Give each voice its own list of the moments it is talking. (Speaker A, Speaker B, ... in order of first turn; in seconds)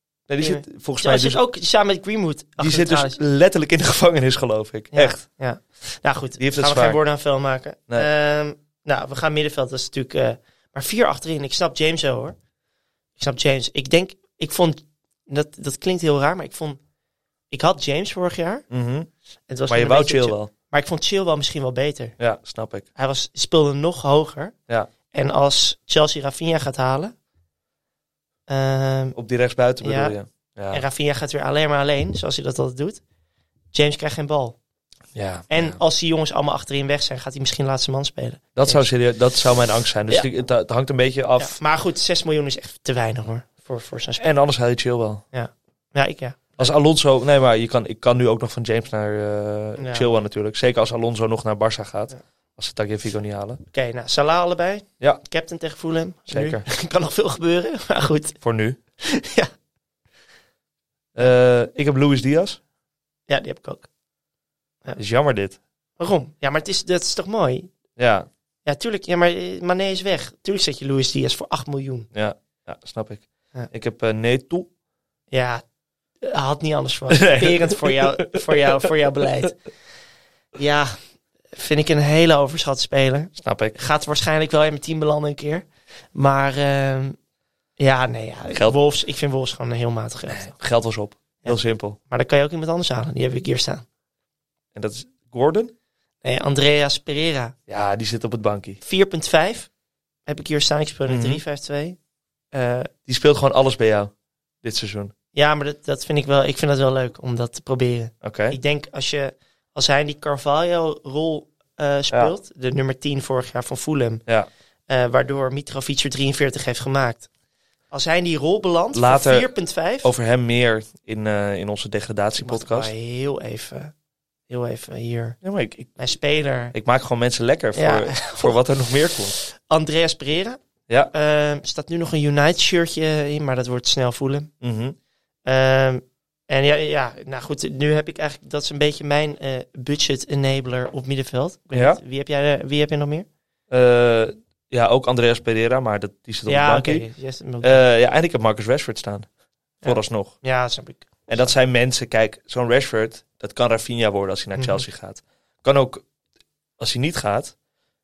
Speaker A: 0.3-1.4, 2.6-5.2, 6.4-7.0, 18.7-19.1, 19.7-20.5, 22.2-22.9, 29.1-30.8, 35.1-35.8, 38.5-41.6, 44.2-45.2, 46.6-53.6, 56.3-56.6, 58.4-58.8, 61.1-62.6, 64.9-65.6, 68.0-68.3, 72.1-74.7, 77.1-78.6, 83.4-83.8, 88.5-88.8, 90.3-92.0, 94.7-95.7, 97.7-98.8, 101.1-101.4, 103.1-104.1, 104.6-105.1, 108.2-108.6, 118.9-122.9, 125.4-125.9, 126.7-129.3, 134.6-134.9, 141.7-142.0, 143.7-147.1, 147.6-149.3, 149.8-150.4, 151.3-156.0, 156.8-157.5
Speaker B: 0.4-3.2, 4.9-12.3, 13.2-16.8, 17.5-18.6, 19.5-22.1, 22.9-24.5, 25.1-27.1, 28.5-29.1, 29.8-30.1, 30.7-33.0, 33.7-34.5, 35.5-38.8, 41.4-44.2, 45.3-46.7, 49.8-50.1, 53.7-58.4, 59.0-59.5, 63.3-63.9, 66.0-67.7, 68.6-72.1, 75.3-75.6, 76.2-79.6, 80.5-81.0, 81.5-87.2, 87.8-90.5, 91.4-93.8, 96.2-97.5, 98.8-99.7, 100.2-102.0, 102.5-102.9, 105.3-114.2, 114.9-117.3, 117.9-120.1, 122.4-123.9, 124.5-125.4, 126.0-126.7, 127.7-128.6, 129.3-130.6, 131.1-134.5, 135.4-143.3, 146.5-147.8, 149.8-151.5, 154.6-154.8